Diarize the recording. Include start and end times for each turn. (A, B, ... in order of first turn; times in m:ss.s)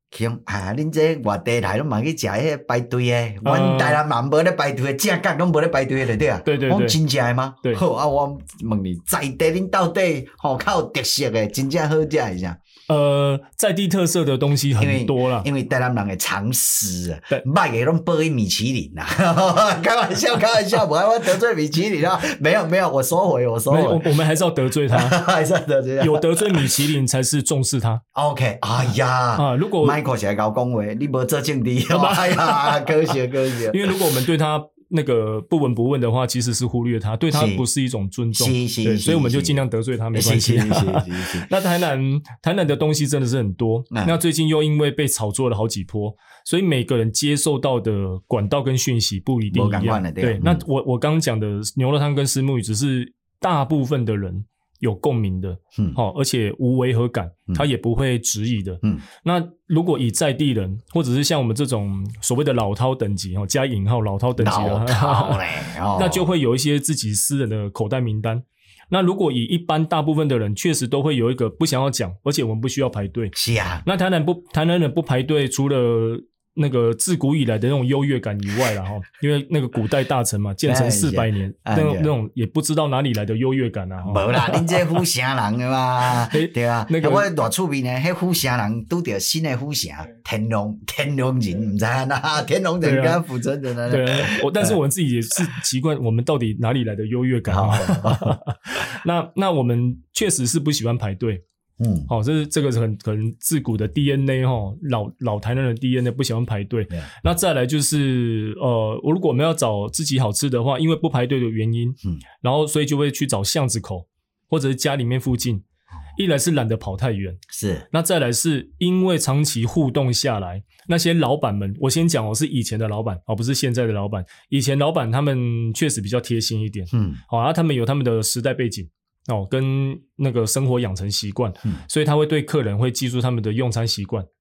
0:00.1-0:12.6 A
0:03.4-0:04.0 B
0:06.4-0:07.0 B
0:12.9-0:15.5 B
0:14.8-0:24.1 A
0:23.7-0:25.2 B
0:24.9-0:26.8 A
0:26.0-0:28.0 B
0:28.1-0:34.0 A
0:29.4-0:30.0 B
0:31.9-0:33.2 B
0:33.7-1:13.3 B
0:37.3-0:37.6 A
0:38.3-0:39.6 A
0:40.1-0:41.5 A
0:43.9-0:44.2 A
0:49.5-0:50.6 A
1:04.4-1:06.3 A
1:13.4-1:13.9 A
1:13.8-1:24.9 B
1:20.7-1:22.1 A
1:24.0-1:34.8 A
1:26.3-1:27.3 B
1:32.8-1:33.2 B
1:33.9-1:41.4 B
1:37.5-1:38.4 A
1:41.8-1:42.1 A
1:42.1-1:55.6 B
1:56.2-2:14.3 B
1:57.5-1:57.9 A
2:06.9-2:07.2 A